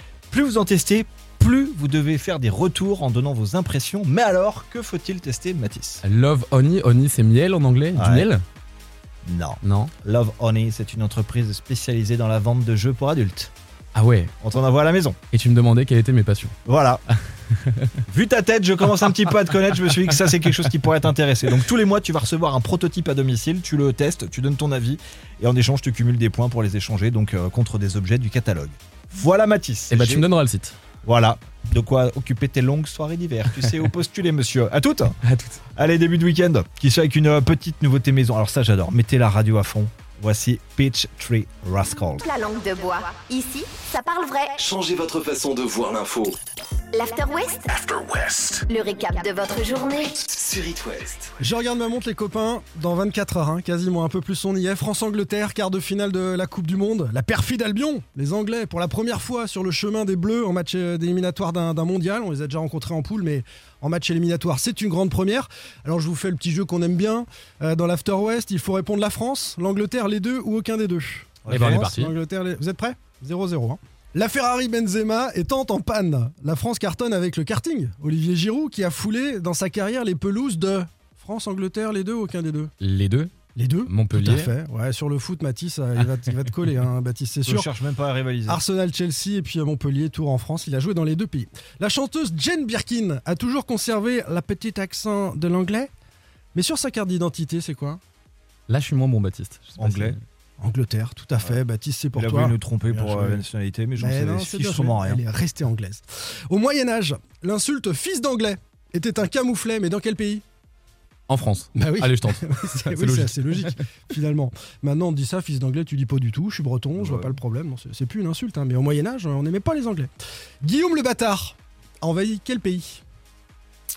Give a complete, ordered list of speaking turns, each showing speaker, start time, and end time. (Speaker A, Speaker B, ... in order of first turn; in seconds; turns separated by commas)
Speaker A: 0.3-6.0, Speaker B: 6.0-8.4, Speaker A: 8.0-8.3, Speaker A: 9.2-13.5, Speaker B: 9.6-9.9, Speaker B: 13.9-14.3, Speaker A: 14.4-15.2, Speaker B: 15.3-16.5, Speaker A: 16.6-17.0, Speaker A: 18.1-30.3, Speaker B: 29.9-30.7, Speaker A: 31.0-35.2, Speaker B: 35.2-35.6, Speaker A: 35.7-42.2, Speaker C: 42.2-44.5, Speaker D: 44.6-46.4, Speaker C: 46.9-47.7, Speaker D: 47.7-48.6, Speaker C: 48.7-50.2, Speaker D: 50.1-51.3, Speaker E: 51.4-82.7, Speaker A: 71.4-71.8, Speaker B: 71.5-72.1, Speaker B: 82.8-83.3, Speaker E: 83.5-87.7, Speaker B: 83.8-84.5, Speaker A: 87.5-88.6, Speaker E: 88.5-95.9, Speaker E: 96.5-98.0, Speaker B: 98.7-100.2, Speaker A: 99.8-100.2, Speaker E: 100.6-103.4, Speaker A: 102.1-105.2, Speaker E: 104.0-110.4, Speaker B: 111.3-113.7, Speaker E: 111.7-120.1, Speaker A: 117.0-117.3, Speaker E: 120.6-123.0